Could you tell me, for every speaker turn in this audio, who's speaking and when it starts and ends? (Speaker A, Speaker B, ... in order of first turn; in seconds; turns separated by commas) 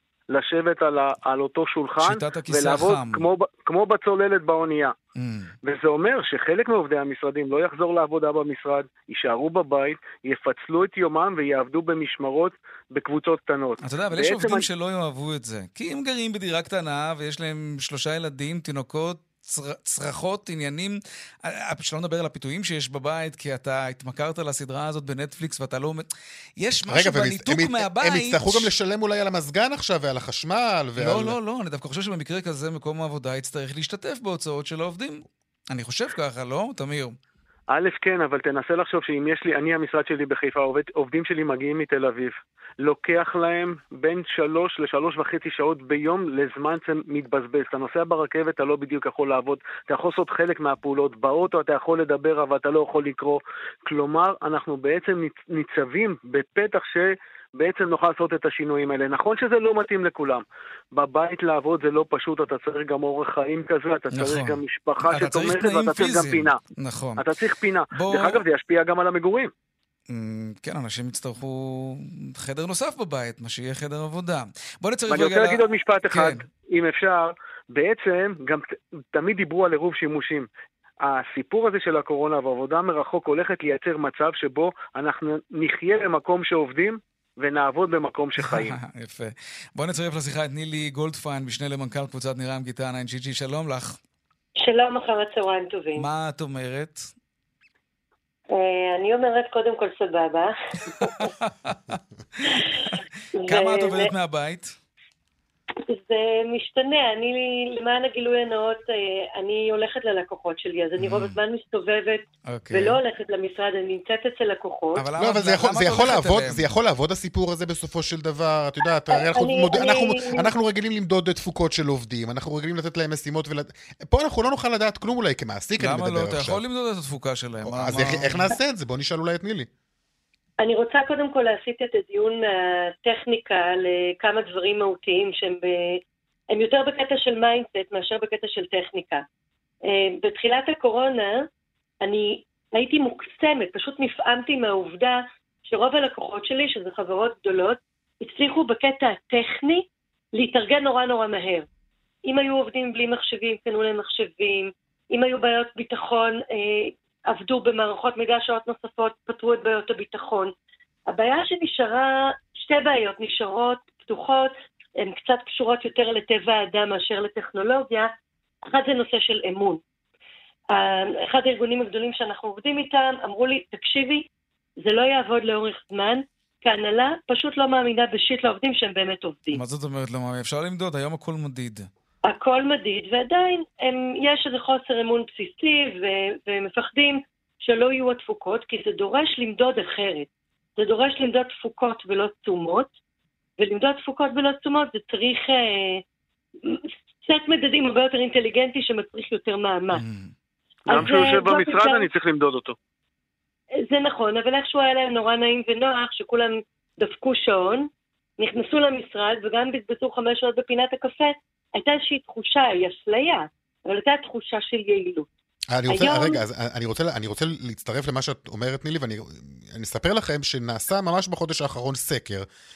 Speaker A: 0.3-5.0, Speaker B: 2.0-3.2, Speaker B: 5.2-5.5, Speaker A: 5.6-14.7, Speaker B: 13.8-26.1, Speaker B: 26.6-28.7, Speaker C: 26.9-31.4, Speaker B: 31.0-37.2, Speaker A: 37.7-66.6, Speaker B: 64.1-67.3, Speaker A: 67.2-69.5, Speaker B: 67.9-68.4, Speaker B: 70.1-76.4, Speaker A: 75.1-80.5, Speaker A: 81.0-88.8, Speaker B: 88.4-94.0, Speaker D: 94.6-96.1, Speaker B: 96.0-97.1, Speaker D: 98.5-101.3, Speaker B: 101.0-104.8, Speaker D: 103.4-104.1, Speaker D: 105.8-115.1, Speaker B: 111.0-111.4, Speaker B: 112.5-113.0, Speaker B: 115.0-116.7, Speaker C: 115.2-126.6, Speaker D: 119.1-120.5, Speaker B: 125.8-128.5, Speaker C: 127.7-129.7, Speaker D: 130.6-136.0, Speaker D: 136.5-139.2, Speaker D: 139.8-141.4, Speaker D: 142.0-151.7, Speaker D: 152.2-160.5, Speaker D: 161.1-168.1, Speaker D: 168.7-169.8, Speaker D: 170.7-174.3, Speaker D: 174.8-179.6, Speaker B: 179.5-181.9, Speaker D: 182.3-192.9, Speaker D: 193.6-196.0, Speaker D: 196.7-200.0, Speaker B: 199.9-200.3, Speaker A: 200.9-202.8, Speaker D: 200.9-202.1, Speaker B: 200.9-201.2, Speaker D: 203.8-207.9, Speaker D: 208.4-215.3, Speaker C: 215.7-222.5, Speaker D: 215.9-216.4